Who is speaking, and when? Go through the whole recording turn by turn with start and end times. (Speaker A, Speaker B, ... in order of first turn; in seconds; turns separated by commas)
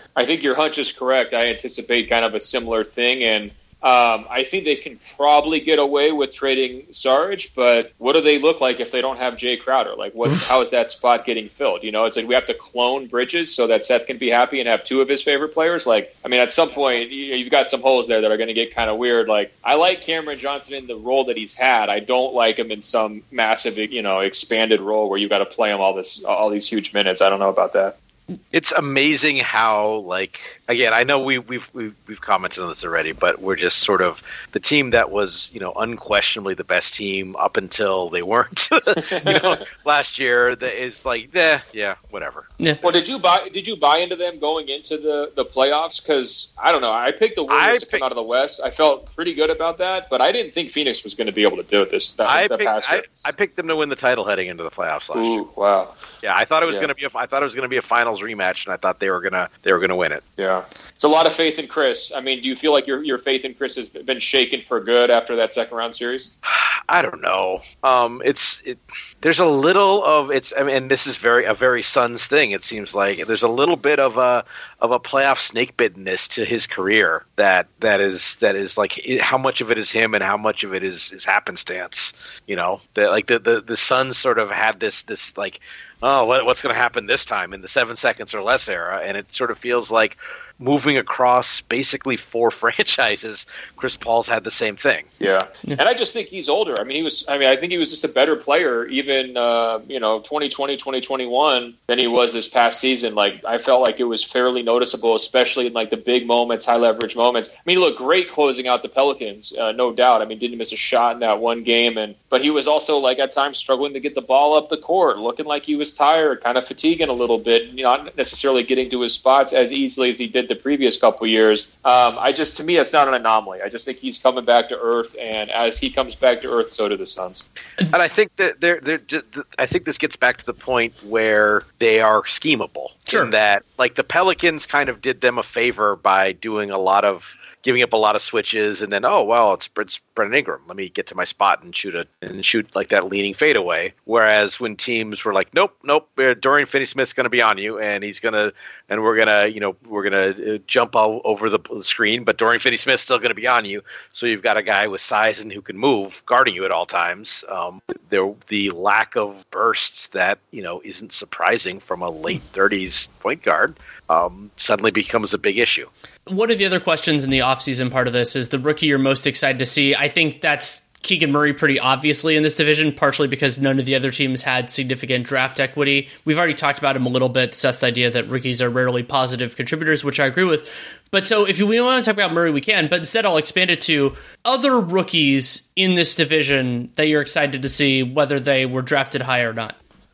Speaker A: 0.1-27.9, Speaker B: 28.5-42.5, Speaker A: 39.0-39.6, Speaker A: 42.8-53.1, Speaker B: 47.5-48.0, Speaker B: 52.3-55.4, Speaker A: 55.1-55.9, Speaker B: 56.2-60.2, Speaker A: 60.4-66.3, Speaker B: 66.5-95.1, Speaker A: 95.2-127.4, Speaker B: 127.9-165.9, Speaker C: 166.3-189.8